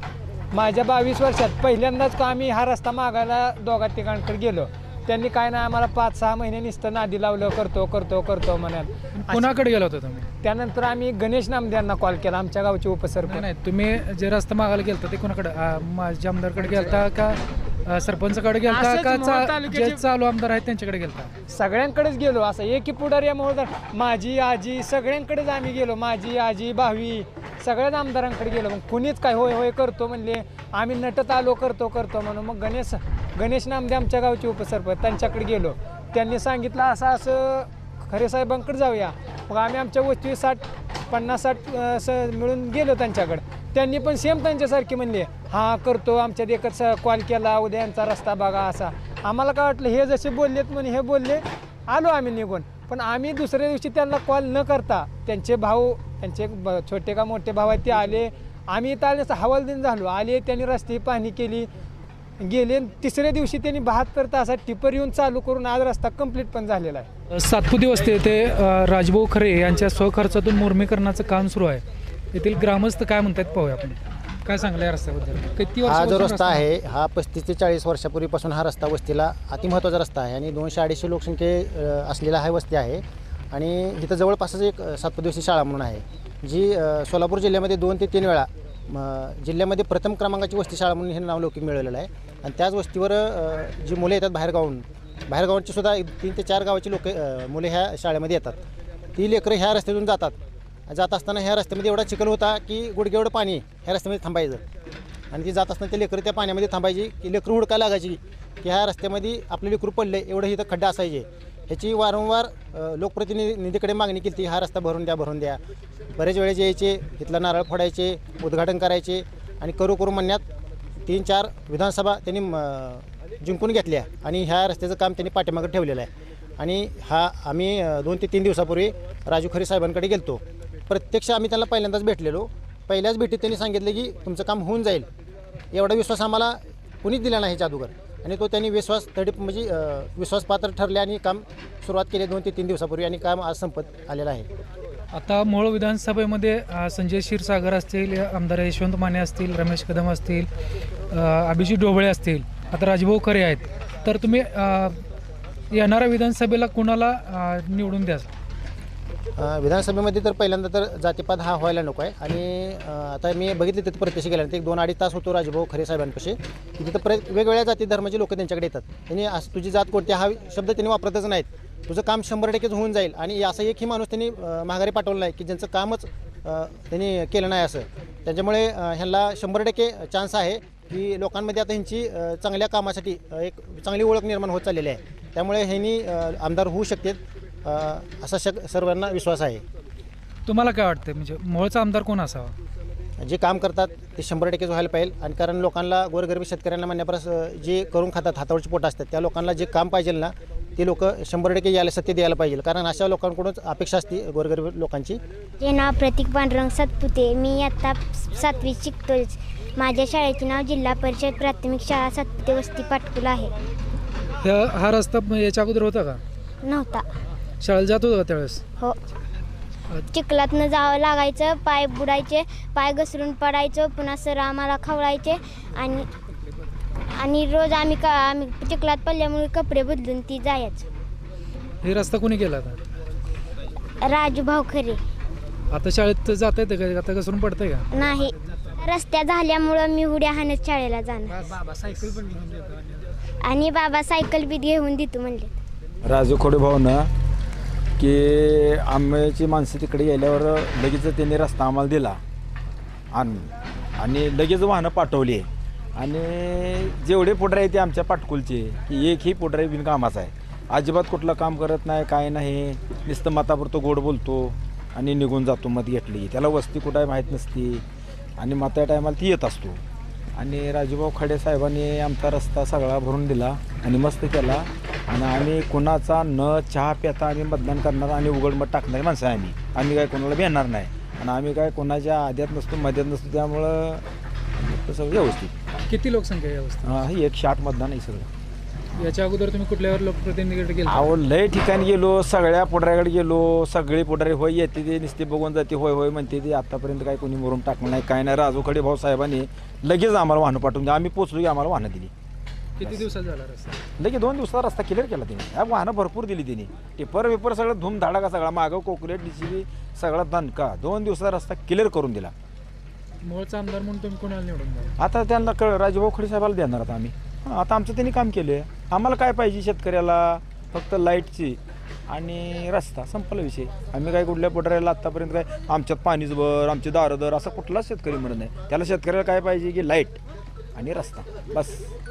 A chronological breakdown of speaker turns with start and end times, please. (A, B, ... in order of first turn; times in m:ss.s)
0:00.5-0:09.6 A
0:09.2-0:10.3 B
0:10.4-0:13.5 A
0:13.2-0:21.3 B
0:16.6-0:17.0 A
0:18.7-0:20.0 A
0:21.5-1:01.7 A
1:02.4-1:07.1 A
1:07.3-1:16.6 B
1:15.9-1:38.6 C
1:39.2-1:40.4 C
1:40.9-1:44.6 C
1:45.3-1:55.6 C
1:56.1-2:00.4 C
2:01.0-2:15.1 C
2:15.7-2:24.5 C
2:25.1-2:30.5 B
2:31.1-2:35.0 B
2:35.7-2:38.3 B
2:39.4-3:09.6 C
3:10.5-3:12.6 B
3:13.2-3:25.2 C
3:25.6-3:33.5 D
3:34.4-3:36.2 B
3:36.6-3:37.1 D
3:37.6-3:38.6 B
3:40.0-3:46.1 D
3:47.2-3:50.9 D
3:51.8-3:52.8 B
3:54.0-3:55.0 D
3:55.7-3:57.9 B
3:57.9-4:01.4 D
4:01.2-4:03.1 A
4:03.4-4:05.6 D
4:06.1-4:07.1 E
4:08.0-4:12.2 E
4:13.1-4:13.5 E
4:14.0-4:27.8 E
4:28.4-4:29.8 E
4:30.4-4:44.0 E
4:44.6-4:45.5 E
4:45.9-4:47.0 B
4:46.9-4:48.3 E
4:49.0-4:51.1 B
4:50.9-5:02.1 E
5:02.8-5:03.8 B
5:04.0-5:12.3 E
5:13.2-5:14.9 B
5:15.0-5:30.2 E
5:30.8-5:31.8 E